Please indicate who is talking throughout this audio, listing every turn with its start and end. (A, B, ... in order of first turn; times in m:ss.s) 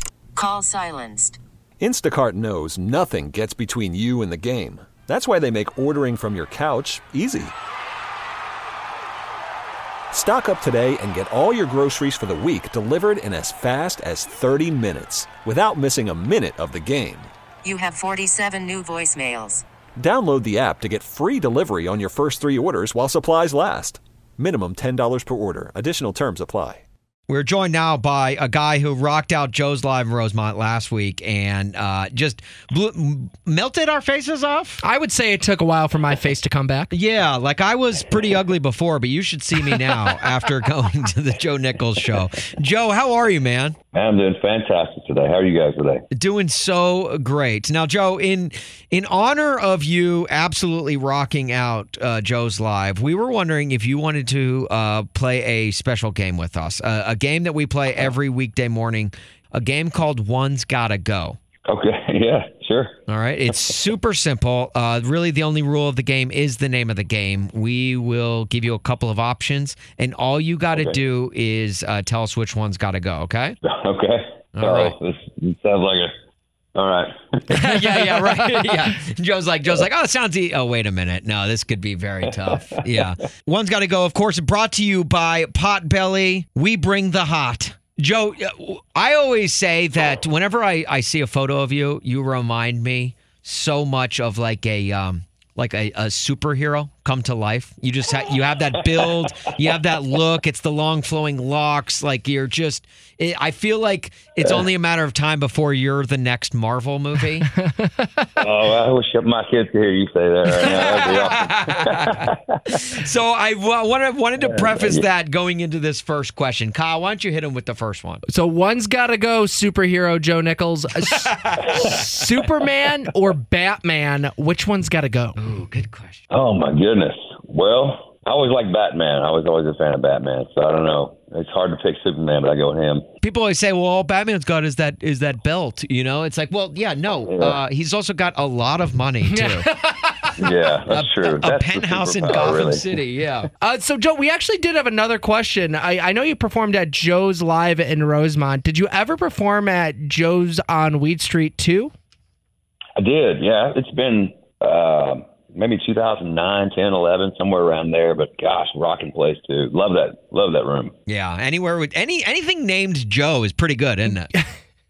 0:00.4-0:01.4 A
0:01.8-0:07.5 B
0:10.1-0:17.3 B
0:17.6-0:19.6 A
0:20.0-0:26.8 B
0:27.3-0:34.8 C
0:34.8-0:36.9 D
0:36.9-0:43.8 C
0:43.9-0:46.0 E
0:46.1-1:01.4 C
1:01.6-1:03.0 E
1:03.1-1:13.6 C
1:13.6-1:16.1 E
1:14.6-1:15.0 C
1:16.8-1:17.7 E
1:17.6-1:47.5 C
1:17.8-1:18.9 D
1:48.4-1:52.6 E
1:50.6-1:52.2 C
1:52.8-1:58.2 C
1:54.4-1:55.1 E
1:58.3-2:05.4 D
2:01.1-2:01.8 C
2:05.4-2:06.2 C
2:06.3-2:13.0 E
2:13.2-2:19.6 C
2:17.2-2:17.6 E
2:19.2-2:20.6 D
2:20.4-2:22.8 E
2:20.9-2:23.5 C
2:23.6-2:31.9 D
2:33.0-2:40.9 E
2:41.1-2:44.3 C